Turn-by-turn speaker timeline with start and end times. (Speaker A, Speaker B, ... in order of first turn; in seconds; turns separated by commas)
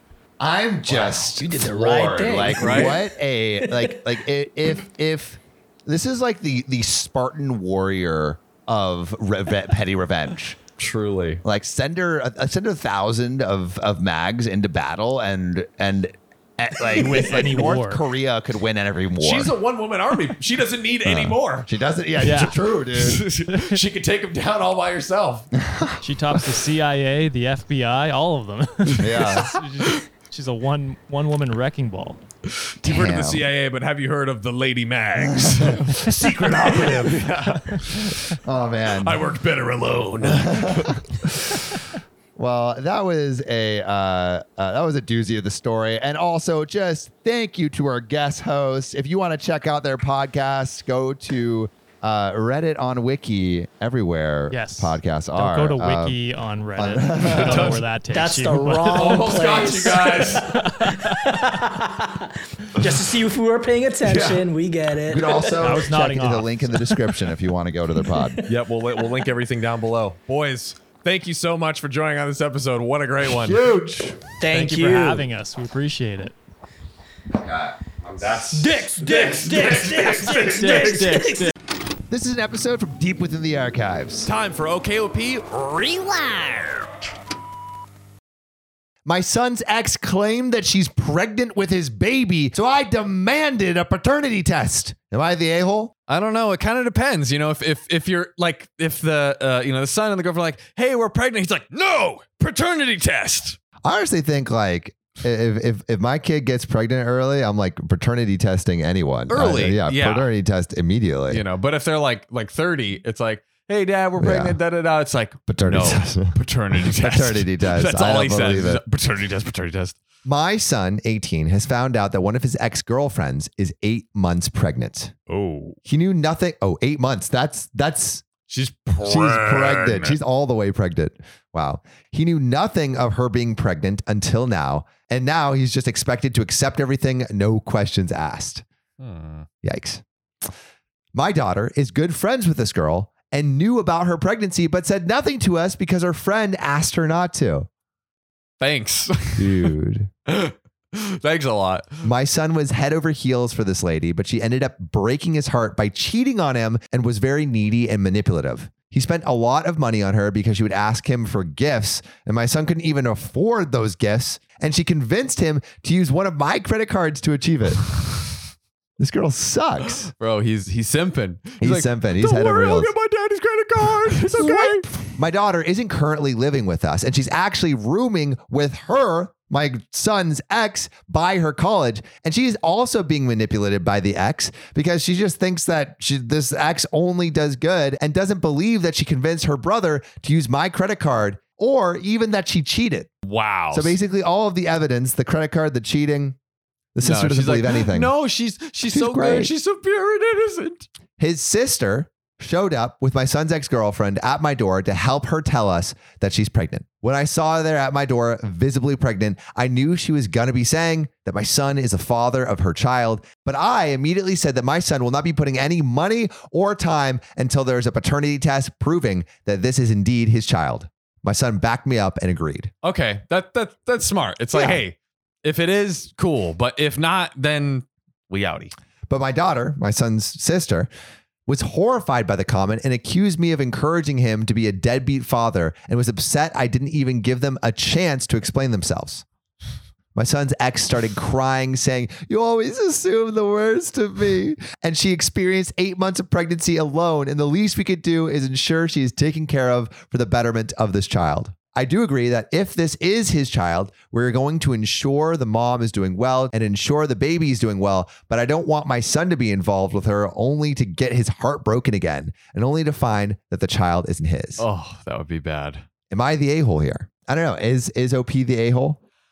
Speaker A: 0.4-10.6, Speaker B: 0.9-3.1, Speaker C: 2.6-3.0, Speaker B: 3.6-4.0, Speaker C: 10.8-11.4, Speaker A: 11.4-19.5, Speaker D: 16.9-18.0, Speaker C: 19.2-21.7, Speaker A: 21.1-23.3, Speaker D: 22.2-22.6, Speaker C: 22.9-25.5, Speaker D: 23.4-23.8, Speaker A: 25.6-26.0, Speaker D: 26.0-32.2, Speaker A: 29.0-29.6, Speaker A: 32.8-33.5, Speaker C: 32.8-38.4, Speaker A: 35.2-39.2, Speaker C: 39.0-41.0, Speaker A: 40.2-56.2, Speaker D: 54.5-59.5, Speaker A: 56.8-57.9, Speaker C: 57.2-57.8, Speaker B: 58.1-65.9, Speaker C: 58.9-60.5, Speaker D: 60.4-61.4, Speaker C: 64.0-64.5, Speaker A: 65.1-68.4, Speaker D: 65.6-66.9, Speaker C: 68.5-73.6, Speaker A: 73.2-74.2, Speaker B: 74.4-75.3, Speaker D: 74.5-76.3, Speaker A: 77.3-80.3, Speaker C: 78.3-81.3, Speaker B: 78.5-81.5, Speaker D: 80.7-81.5, Speaker A: 82.1-84.3, Speaker C: 84.2-87.0, Speaker A: 89.0-95.9, Speaker C: 96.1-103.6, Speaker A: 103.8-111.4, Speaker C: 109.3-110.3, Speaker C: 111.3-120.0, Speaker A: 114.2-114.6, Speaker A: 115.5-118.8, Speaker A: 120.2-125.1, Speaker C: 125.3-125.8, Speaker A: 125.8-128.3, Speaker C: 128.5-130.2, Speaker A: 129.0-138.6, Speaker C: 139.0-139.5, Speaker A: 139.6-140.0, Speaker A: 141.1-147.7, Speaker C: 148.6-149.7, Speaker A: 149.4-150.1, Speaker C: 150.3-152.0, Speaker A: 152.0-168.0, Speaker A: 169.0-170.1, Speaker C: 169.9-174.9, Speaker A: 171.6-172.9, Speaker A: 174.3-193.1, Speaker C: 193.2-194.0, Speaker A: 193.7-196.4, Speaker A: 196.9-198.1, Speaker C: 197.0-200.9, Speaker A: 198.9-199.5, Speaker A: 201.2-222.7, Speaker C: 222.8-228.7, Speaker A: 224.5-224.8, Speaker A: 229.1-230.9, Speaker A: 231.5-239.2, Speaker A: 240.2-264.6, Speaker C: 264.6-265.8, Speaker A: 266.1-269.0